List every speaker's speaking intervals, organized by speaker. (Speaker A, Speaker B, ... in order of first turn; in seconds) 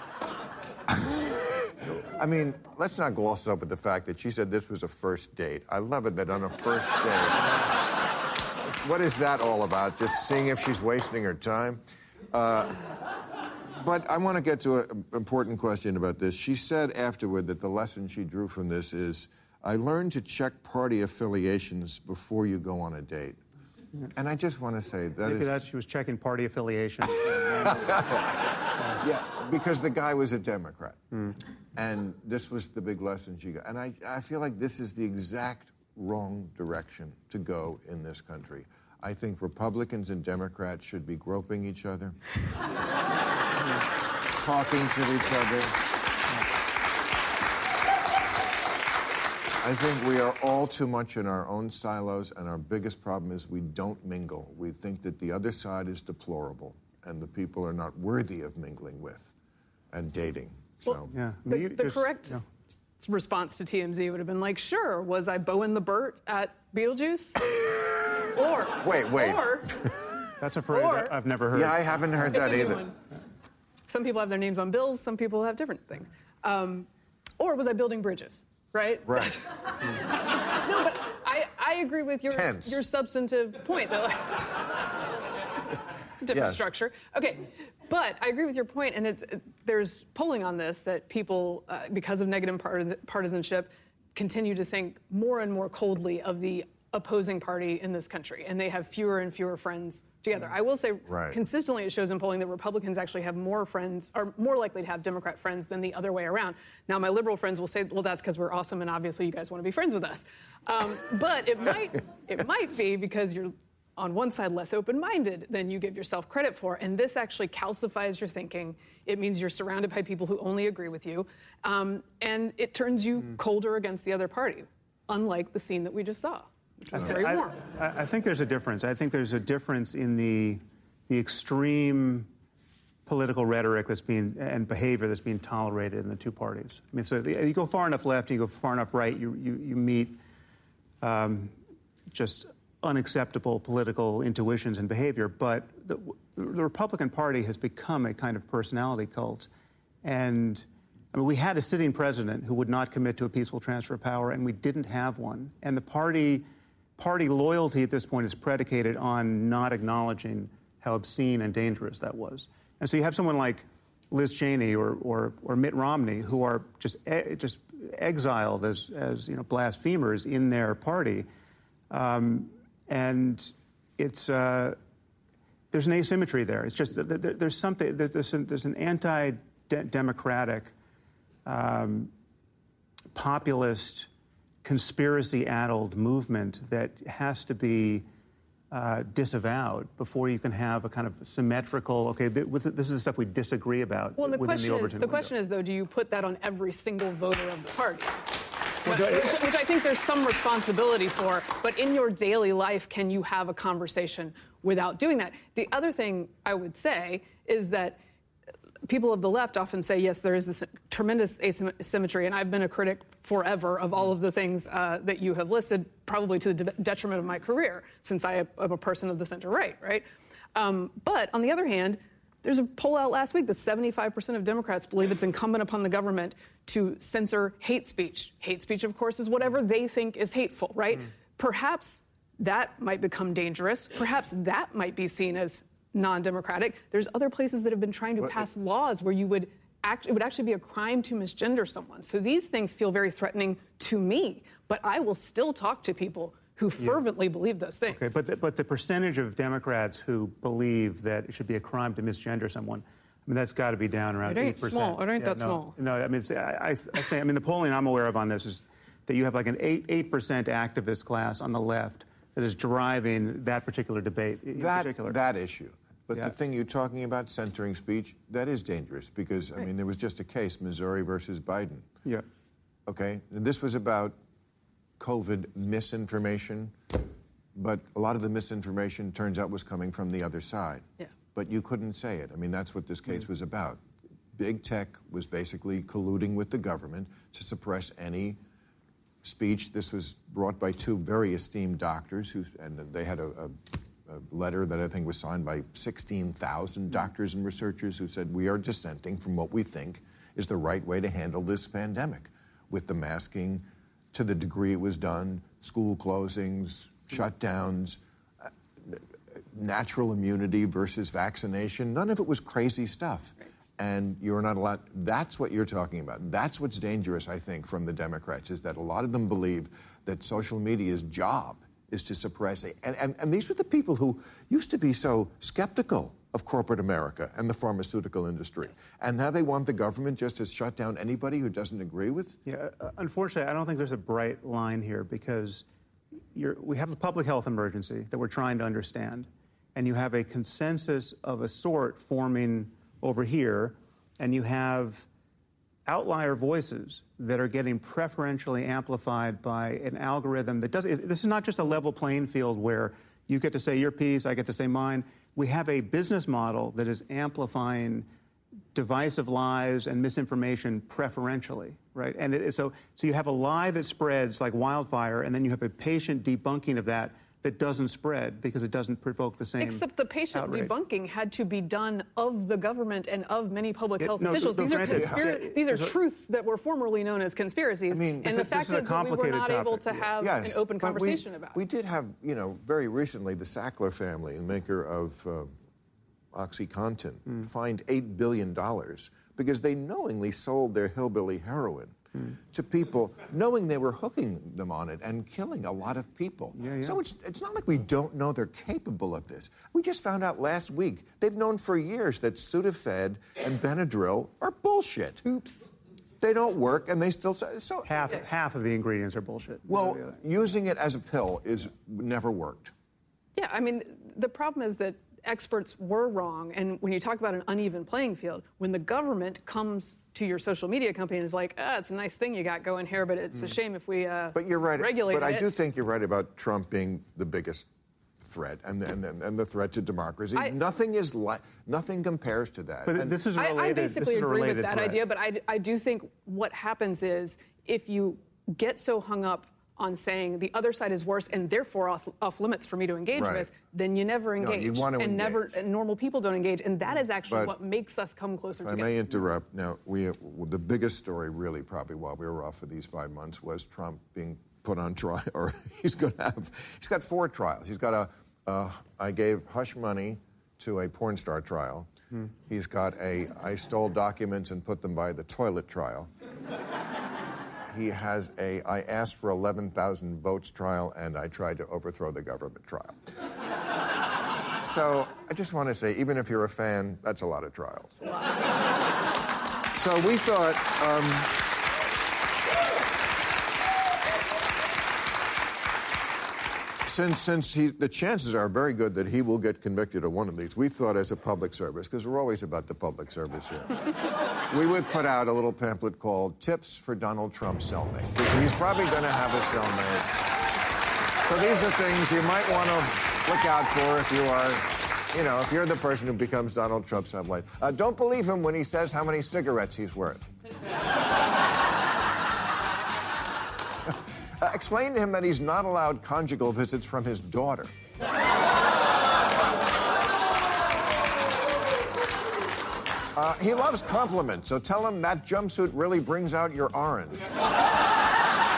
Speaker A: 0.9-7.7, 8.8-12.8, 13.8-23.4, 24.1-25.5, 27.6-28.3, 28.9-31.0, 31.7-42.2, 44.3-45.8, 49.6-59.3, 59.9-61.1, 68.8-70.0, 71.5-72.8, 79.0-79.3, 82.3-82.8, 86.3-86.6, 101.0-101.4, 264.5-271.9, 272.9-274.1, 275.0-276.7, 277.5-283.8, 284.4-288.4, 289.2-332.4, 374.9-375.2, 377.9-378.3, 380.2-385.5, 386.3-392.0, 392.5-405.2, 406.2-408.2, 409.7-412.7, 424.3-427.7, 428.2-433.2, 443.1-443.5, 444.4-445.6, 447.3-447.5, 448.6-461.9, 462.4-466.1, 467.7-473.0, 474.6-477.9, 479.7-481.4, 486.8-493.9, 494.5-500.1, 501.2-510.2, 513.8-517.7, 523.1-527.2
Speaker B: 25.2-28.1, 61.1-62.4, 70.4-72.5, 126.9-132.3, 133.1-140.2, 141.0-141.5, 142.1-149.5, 150.0-156.4, 157.0-171.3, 171.9-174.8, 175.7-180.7, 181.4-182.1, 183.1-184.1, 184.6-188.1, 188.7-195.3, 198.8-199.4, 247.9-265.2, 332.4-335.6, 336.3-345.1, 345.9-358.1, 358.7-370.7, 374.0-375.9, 378.2-380.2, 396.6-397.0, 407.9-410.2, 432.9-435.0
Speaker C: 60.9-62.4, 63.0-67.5, 68.3-69.8, 70.7-71.2, 72.3-72.9, 73.9-76.9, 77.4-84.5, 86.2-127.6, 194.2-198.2, 198.8-208.0, 208.8-248.2, 254.2-255.7, 369.6-381.6, 405.2-405.7, 413.4-425.5, 433.4-449.1